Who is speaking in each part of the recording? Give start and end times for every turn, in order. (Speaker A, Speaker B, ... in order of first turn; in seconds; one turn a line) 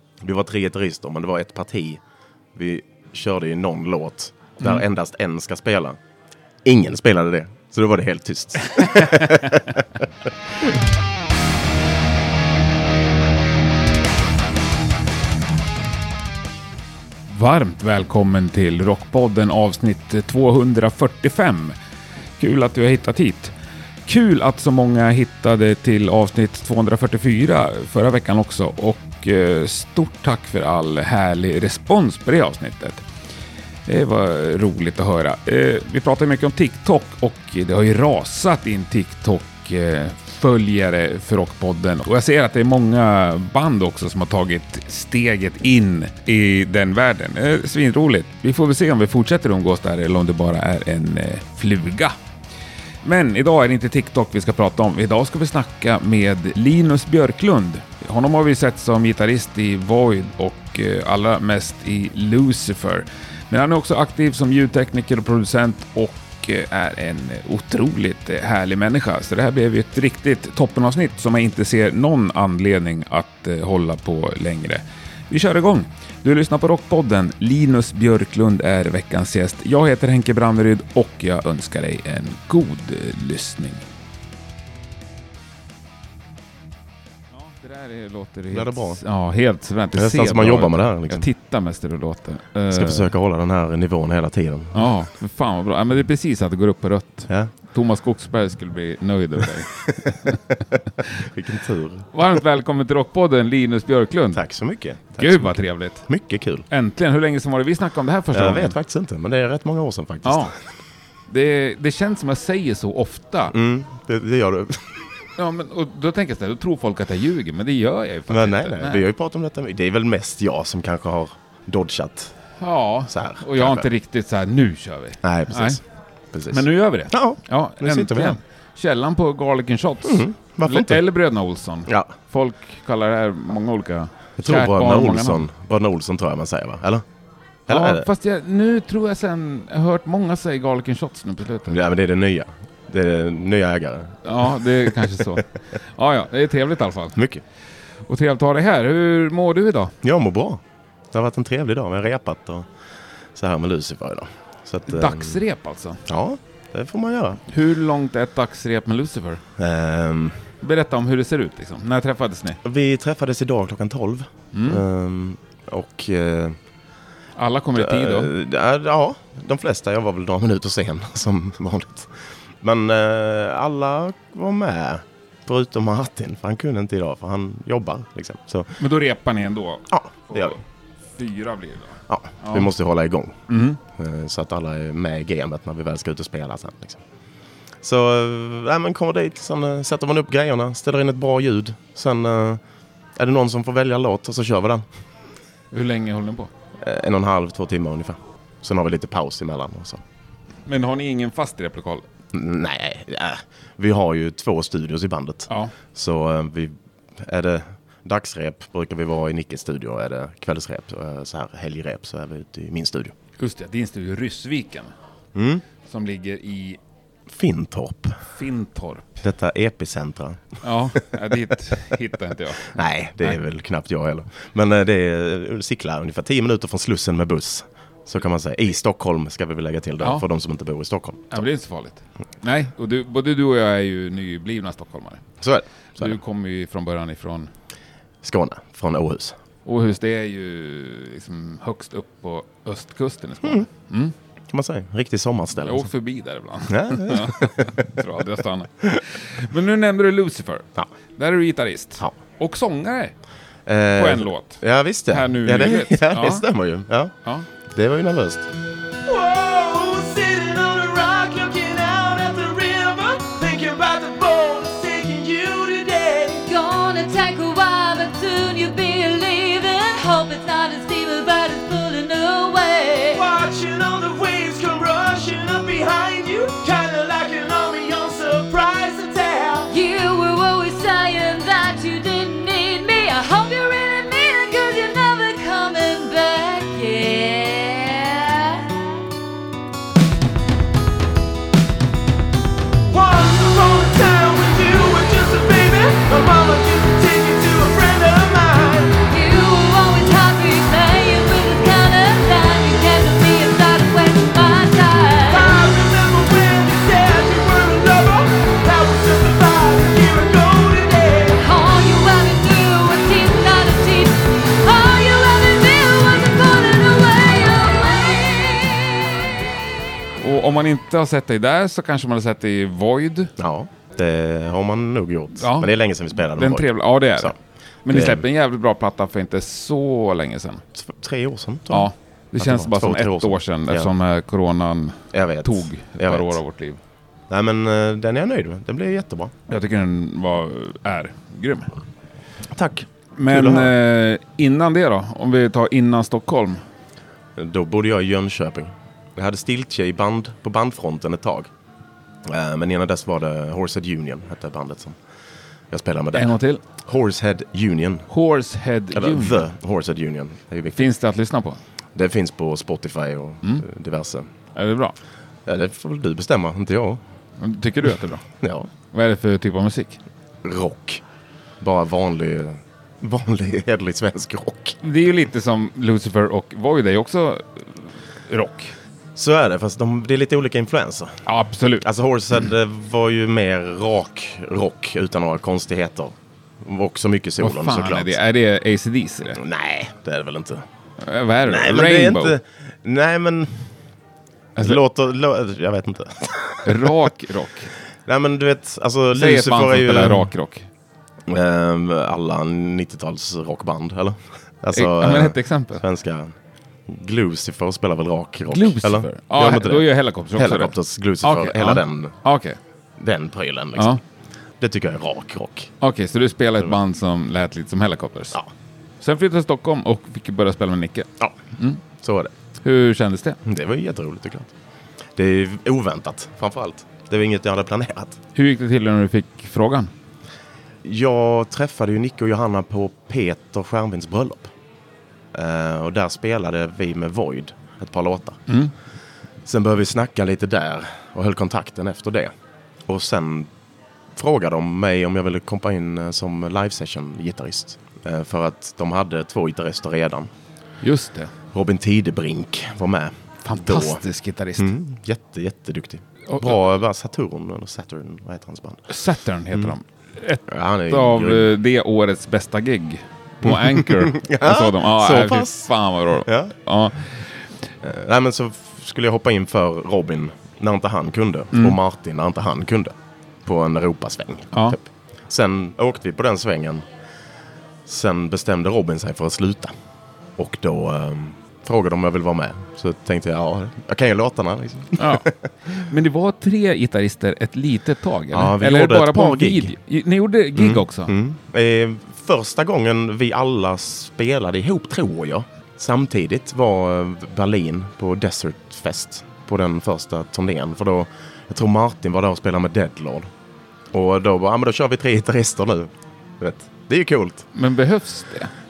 Speaker A: 0.2-2.0
Speaker A: 2.5-6.0
Speaker A: 6.6-10.0
Speaker B: 8.8-9.3
Speaker B: 17.3-21.8
Speaker B: 22.4-23.5
Speaker B: 24.1-33.0
Speaker B: 33.9-52.2
Speaker B: 53.0-83.8
Speaker B: 87.3-93.1
Speaker A: 88.5-89.0
Speaker A: 90.0-91.3
Speaker A: 92.7-94.9
Speaker B: 94.7-99.8
Speaker A: 99.8-102.1
Speaker B: 102.1-104.4
Speaker A: 104.3-106.7
Speaker B: 105.2-106.1
Speaker B: 106.7-108.8
Speaker A: 108.3-110.6
Speaker B: 110.2-110.5
Speaker B: 111.3-113.5
Speaker A: 113.5-115.0
Speaker B: 115.4-119.1
Speaker A: 118.3-122.3
Speaker B: 122.6-125.8
Speaker A: 123.1-123.9
Speaker A: 125.2-125.8
Speaker A: 126.3-128.4
Speaker B: 126.5-135.5
Speaker A: 130.1-131.0
Speaker A: 131.9-132.2
Speaker A: 134.4-137.1
Speaker A: 137.7-138.1
Speaker B: 137.7-141.8
Speaker A: 141.7-144.7
Speaker B: 144.2-147.2
Speaker A: 147.2-147.4
Speaker B: 148.1-149.9
Speaker A: 150.0-150.6
Speaker A: 151.1-152.7
Speaker A: 153.4-155.4
Speaker B: 154.9-156.0
Speaker A: 156.1-157.4
Speaker B: 157.5-159.4
Speaker A: 159.6-160.5
Speaker B: 160.6-162.6
Speaker A: 162.6-166.6
Speaker B: 164.5-164.8
Speaker B: 167.4-168.3
Speaker A: 167.8-178.7
Speaker B: 178.8-180.6
Speaker A: 179.9-180.6
Speaker B: 181.2-182.7
Speaker A: 182.1-183.4
Speaker B: 183.5-183.8
Speaker A: 183.9-187.0
Speaker A: 187.8-192.6
Speaker A: 193.2-194.8
Speaker B: 195.7-196.5
Speaker A: 196.8-200.0
Speaker B: 200.7-202.1
Speaker A: 202.3-213.2
Speaker B: 205.5-205.7
Speaker B: 213.4-214.9
Speaker A: 215.3-215.6
Speaker B: 215.8-216.8
Speaker A: 217.3-218.2
Speaker B: 218.3-219.2
Speaker A: 219.2-221.1
Speaker B: 220.6-222.7
Speaker A: 222.6-231.4
Speaker B: 231.3-235.2
Speaker A: 235.4-236.2
Speaker B: 236.0-237.5
Speaker A: 238.2-239.4
Speaker B: 239.7-244.1
Speaker A: 244.5-245.9
Speaker B: 245.6-253.1
Speaker A: 246.7-247.9
Speaker A: 253.7-257.1
Speaker B: 253.9-256.4
Speaker A: 257.7-258.5
Speaker C: 259.1-266.4
Speaker D: 266.4-273.3
Speaker C: 273.3-279.6
Speaker D: 279.7-289.1
Speaker C: 292.9-298.9
Speaker D: 299.1-305.5
Speaker C: 305.3-311.4
Speaker D: 311.4-318.9
Speaker B: 320.2-323.3
Speaker A: 323.4-327.4
Speaker B: 325.4-325.7
Speaker B: 326.3-330.6
Speaker A: 327.9-328.2
Speaker A: 330.7-333.9
Speaker B: 331.7-336.8
Speaker A: 335.1-336.4
Speaker A: 337.3-339.4
Speaker B: 339.5-341.7
Speaker A: 342.5-343.7
Speaker B: 343.2-346.6
Speaker A: 347.4-351.5
Speaker A: 352.2-355.0
Speaker A: 355.7-358.1
Speaker B: 356.1-356.6
Speaker B: 358.1-359.4
Speaker A: 358.9-360.9
Speaker B: 360.7-361.6
Speaker A: 361.9-364.3
Speaker B: 364.6-364.9
Speaker A: 365.4-367.0
Speaker B: 367.4-368.2
Speaker A: 368.4-368.7
Speaker B: 368.9-370.0
Speaker A: 370.4-371.0
Speaker A: 371.6-374.8
Speaker B: 374.8-378.7
Speaker A: 379.2-381.2
Speaker B: 381.2-381.9
Speaker A: 381.8-388.2
Speaker B: 387.4-389.4
Speaker A: 389.3-390.6
Speaker B: 391.0-392.4
Speaker A: 391.4-393.6
Speaker A: 394.6-396.9
Speaker B: 396.6-397.7
Speaker A: 398.1-400.3
Speaker B: 399.1-400.7
Speaker A: 401.3-406.4
Speaker B: 404.7-405.9
Speaker A: 406.9-412.1
Speaker B: 408.5-412.6
Speaker A: 413.0-414.0
Speaker B: 413.8-414.0
Speaker A: 414.6-415.7
Speaker B: 415.8-418.4
Speaker B: 419.0-421.8
Speaker A: 422.0-422.3
Speaker B: 422.6-423.4
Speaker A: 423.4-424.5
Speaker A: 425.2-428.2
Speaker B: 428.4-429.9
Speaker A: 430.8-434.5
Speaker A: 435.3-438.4
Speaker A: 439.4-442.3
Speaker A: 442.9-443.5
Speaker A: 444.2-450.3
Speaker B: 450.8-451.3
Speaker A: 451.5-454.0
Speaker B: 453.5-454.7
Speaker A: 454.6-458.9
Speaker B: 458.9-467.2
Speaker A: 460.5-461.5
Speaker A: 463.4-466.6
Speaker A: 467.8-472.9
Speaker A: 473.4-476.9
Speaker A: 477.9-479.7
Speaker A: 480.4-485.5
Speaker B: 485.0-485.3
Speaker B: 485.8-491.1
Speaker A: 488.3-489.8
Speaker A: 490.6-503.3
Speaker A: 503.9-507.4
Speaker B: 507.5-508.5